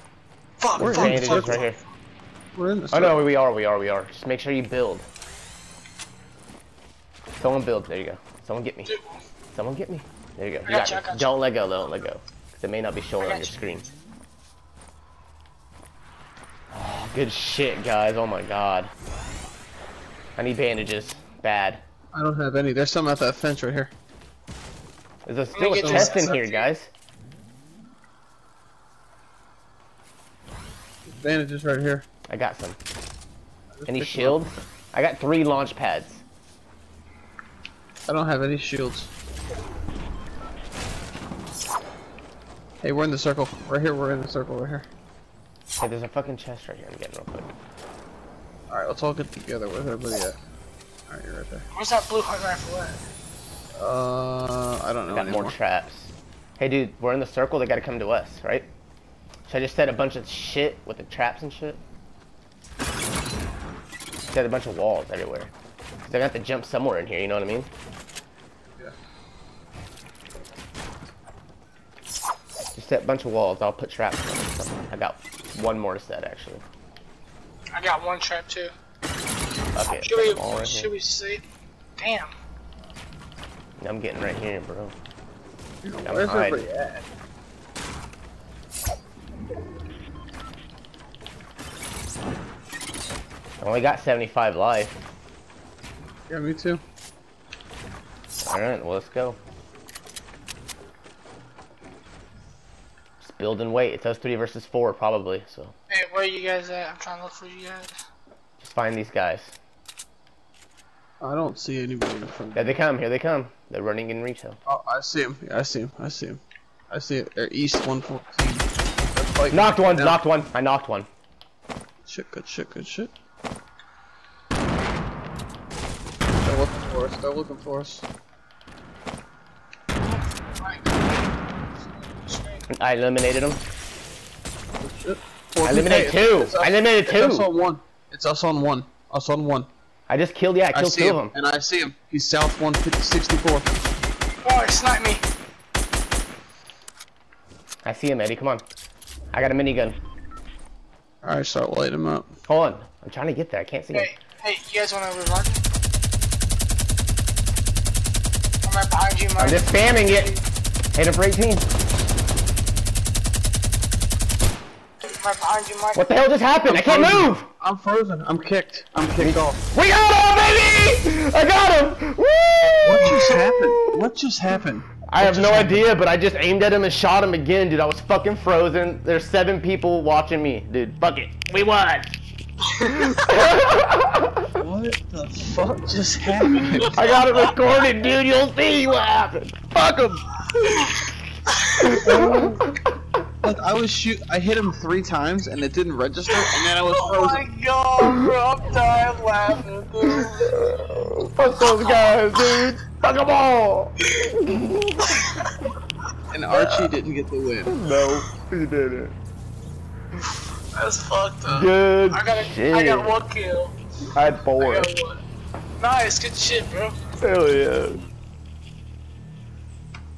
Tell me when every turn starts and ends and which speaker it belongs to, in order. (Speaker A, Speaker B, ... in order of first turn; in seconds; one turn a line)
Speaker A: 0.6-1.8
Speaker B: 0.8-1.6
Speaker C: 0.8-1.8
Speaker B: 2.5-3.2
Speaker C: 2.9-5.1
Speaker C: 7.4-8.9
Speaker A: 8.8-9.2
Speaker C: 9.5-13.9
Speaker A: 10.7-11.3
Speaker A: 13.2-13.6
Speaker C: 16.7-18.9
Speaker C: 20.4-21.8
Speaker B: 22.1-23.9
Speaker C: 25.2-26.9
Speaker A: 25.5-26.7
Speaker B: 25.8-26.4
Speaker B: 31.1-32.0
Speaker C: 32.3-32.8
Speaker B: 33.7-34.5
Speaker C: 33.9-36.2
Speaker B: 38.1-39.1
Speaker B: 42.8-44.9
Speaker C: 45.8-47.5
Speaker B: 48.7-50.4
Speaker B: 51.1-51.6
Speaker A: 51.7-53.0
Speaker B: 53.8-55.5
Speaker C: 55.1-58.7
Speaker C: 59.5-61.8
Speaker C: 64.3-65.5
Speaker C: 66.0-67.7
Speaker C: 72.7-76.6
Speaker A: 77.8-78.7
Speaker C: 79.7-80.9
Speaker A: 80.0-81.4
Speaker A: 82.0-82.3
Speaker C: 83.8-85.0
Speaker B: 85.8-87.0
Speaker C: 86.0-86.7
Speaker C: 93.6-95.0
Speaker B: 96.3-96.8
Speaker C: 98.4-99.4
Speaker C: 103.2-105.7
Speaker A: 105.9-107.9
Speaker C: 108.6-109.5
Speaker B: 111.2-112.8
Speaker C: 112.5-114.6
Speaker B: 114.7-120.2
Speaker C: 119.5-121.1
Speaker B: 122.0-123.1
Speaker B: 126.4-128.0
Speaker A: 130.0-132.7
Speaker C: 132.7-133.6
Speaker B: 134.8-139.7
Speaker C: 135.6-137.5
Speaker C: 140.1-141.3
Speaker B: 140.7-143.8
Speaker A: 144.4-145.2
Speaker C: 147.8-148.6
Speaker C: 149.3-150.0
Speaker B: 151.2-152.3
Speaker C: 152.5-154.1
Speaker A: 153.9-155.6
Speaker A: 158.6-160.4
Speaker C: 159.4-160.3
Speaker C: 160.9-161.7
Speaker A: 165.1-166.1
Speaker C: 165.9-167.5
Speaker B: 166.7-169.6
Speaker C: 169.2-173.4
Speaker B: 172.8-175.9
Speaker C: 175.1-182.1
Speaker A: 182.7-183.2
Speaker C: 182.9-184.4
Speaker B: 184.6-187.0
Speaker A: 186.5-187.5
Speaker C: 186.9-190.2
Speaker A: 190.5-191.0
Speaker A: 191.6-192.0
Speaker C: 191.8-192.6
Speaker B: 192.0-192.6
Speaker B: 193.4-197.5
Speaker A: 196.3-200.5
Speaker C: 200.1-205.2
Speaker A: 201.5-202.6
Speaker A: 205.1-205.6
Speaker B: 206.3-207.8
Speaker A: 206.5-206.8
Speaker C: 207.7-209.1
Speaker A: 210.7-213.7
Speaker C: 211.5-213.1
Speaker C: 214.1-214.9
Speaker A: 214.4-215.2
Speaker A: 215.8-216.9
Speaker C: 217.2-218.0